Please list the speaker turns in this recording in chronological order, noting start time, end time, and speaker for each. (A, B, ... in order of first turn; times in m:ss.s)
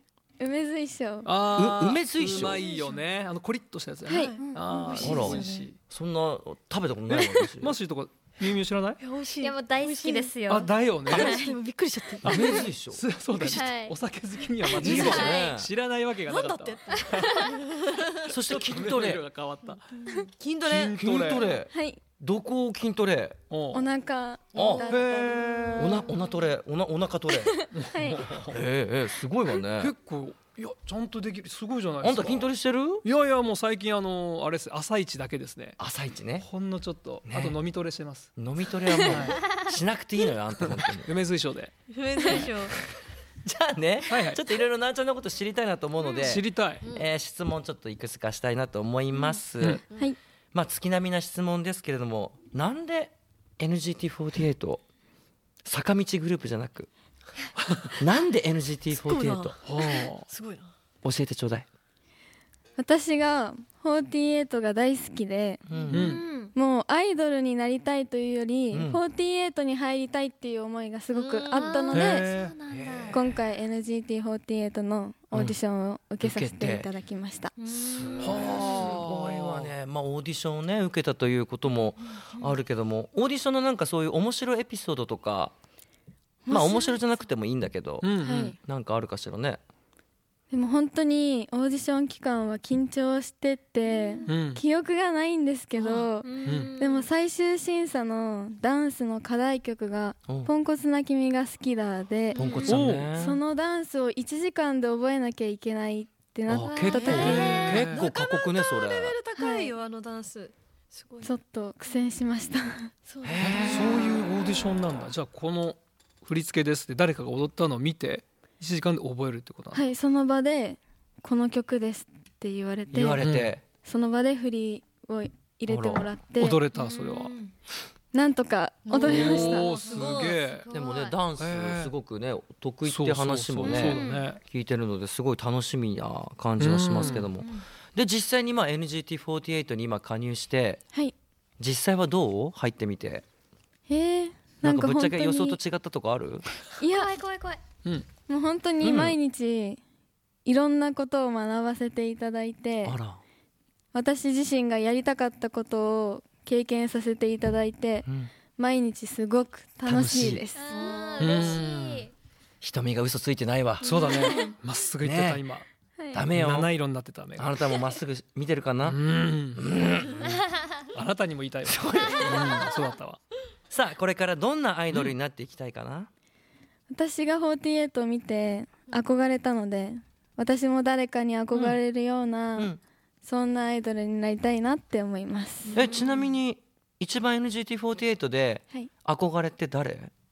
0:00.4-0:01.3 A
0:01.2-0:05.8 B
0:01.5-0:02.6 C
0:02.6-0:03.0 D
0:04.1-0:04.4 A
0:04.1-0:05.7 D
0:05.0-0:07.8 C
0:07.6-0:09.0 B
0:09.0-0:10.3 D
0:09.4-0:11.5 E
0:10.5-0:11.5 B
0:11.1-0:12.6 D
0:12.2-0:17.5 B
0:12.2-0:13.0 C
0:13.4-0:14.0 E
0:14.8-0:15.7 C
0:14.8-0:15.5 E
0:14.8-0:15.4 D
0:16.2-0:18.3 D
0:18.3-0:19.2 C
0:18.5-0:19.8 B
0:20.2-0:21.4 D
0:20.7-0:21.4 B
0:20.7-0:23.4 C
0:21.7-0:22.0 A
0:23.5-0:23.9 B
0:23.7-0:25.7 A
0:24.5-0:24.9 D
0:24.5-0:25.0 C
0:24.8-0:26.0 B
0:25.7-0:27.6 C
0:27.7-0:28.6 B
0:27.8-0:28.2 A
0:28.3-0:29.9 C
0:29.8-0:32.5 B
0:32.0-0:33.0 C
0:33.0-0:35.8 B
0:35.8-0:36.4 C
0:36.4-0:38.3 B
0:37.2-0:37.6 C
0:38.4-0:41.1 C
0:39.0-0:39.4 B
0:40.7-0:41.7 B
0:41.9-0:42.8 D
0:43.4-0:49.8 C
0:44.1-0:44.4 B
0:46.2-0:46.8 B
0:50.5-0:54.8 C
0:55.6-0:56.9 C
0:57.6-0:58.0 B
0:58.0-0:59.6 C
0:59.0-1:00.7 D
0:59.6-1:00.3 B
1:01.0-1:01.7 C
1:02.8-1:05.6 A
1:05.7-1:06.2 C
1:05.7-1:06.5 E
1:05.9-1:06.2 B
1:06.5-1:12.3 A
1:08.7-1:09.0 C
1:11.1-1:11.9 D
1:11.5-1:13.2 E
1:11.9-1:12.5 B
1:12.7-1:13.2 C
1:13.1-1:17.5 A
1:15.3-1:15.6 C
1:16.2-1:16.9 C
1:17.6-1:18.7 E
1:17.7-1:25.5 C
1:18.2-1:19.7 B
1:26.5-1:26.9 A
1:26.5-1:29.6 C
1:28.0-1:28.5 B
1:28.2-1:28.6 A
1:30.5-1:42.4 A
1:33.8-1:34.3 E
1:34.3-1:34.6 B
1:36.2-1:37.1 E
1:36.4-1:36.7 B
1:42.4-1:42.8 E
1:42.4-1:42.6 D
1:42.4-1:43.4 C
1:42.7-1:43.1 B
1:43.1-1:47.7 A
1:46.5-1:49.2 C
1:46.9-1:51.3 D
1:46.9-1:48.0 B
1:47.2-1:47.5 E
1:49.4-1:49.7 A
1:51.2-1:52.9 A
1:53.0-1:54.2 D
1:53.2-1:54.1 C
1:53.4-1:59.8 B
1:59.7-2:03.2 A
2:02.9-2:03.6 C
2:03.2-2:03.5 B
2:03.8-2:06.6 A
2:05.7-2:06.1 C
2:06.4-2:07.3 B
2:06.7-2:07.5 E
2:08.1-2:09.7 A
2:08.9-2:10.6 D
2:09.0-2:10.6 B
2:10.6-2:11.1 E
2:10.7-2:20.8 C
2:11.4-2:11.9 B
2:12.8-2:14.4 B
2:13.6-2:14.2 E
2:16.6-2:17.3 B
2:21.6-2:23.2 C
2:23.9-2:25.6 A
2:24.6-2:26.5 C
2:26.8-2:27.1 A
2:26.8-2:27.6 E
2:28.3-2:29.8 A
2:28.8-2:29.2 C
2:30.4-2:33.0 A
2:32.8-2:33.2 C
2:33.9-2:40.8 A
2:38.0-2:38.3 C
2:39.8-2:40.4 C
2:40.6-2:42.1 E
2:40.7-2:41.6 D
2:41.2-2:42.1 B
2:42.6-2:44.1 C
2:43.8-2:45.7 B
2:43.9-2:44.5 A
2:44.1-2:44.5 E
2:45.0-2:45.4 C
2:46.0-2:46.2 A
2:46.1-2:46.7 C
2:46.3-2:47.5 B
2:47.4-2:49.0 C
2:48.8-2:49.6 B
2:49.5-2:50.5 C
2:50.2-2:50.9 E
2:50.9-2:53.2 B
2:51.6-2:52.7 C
2:53.7-2:56.1 C
2:56.9-3:02.7 A
3:03.2-3:05.7 A
3:05.7-3:06.1 E
3:05.7-3:10.1 C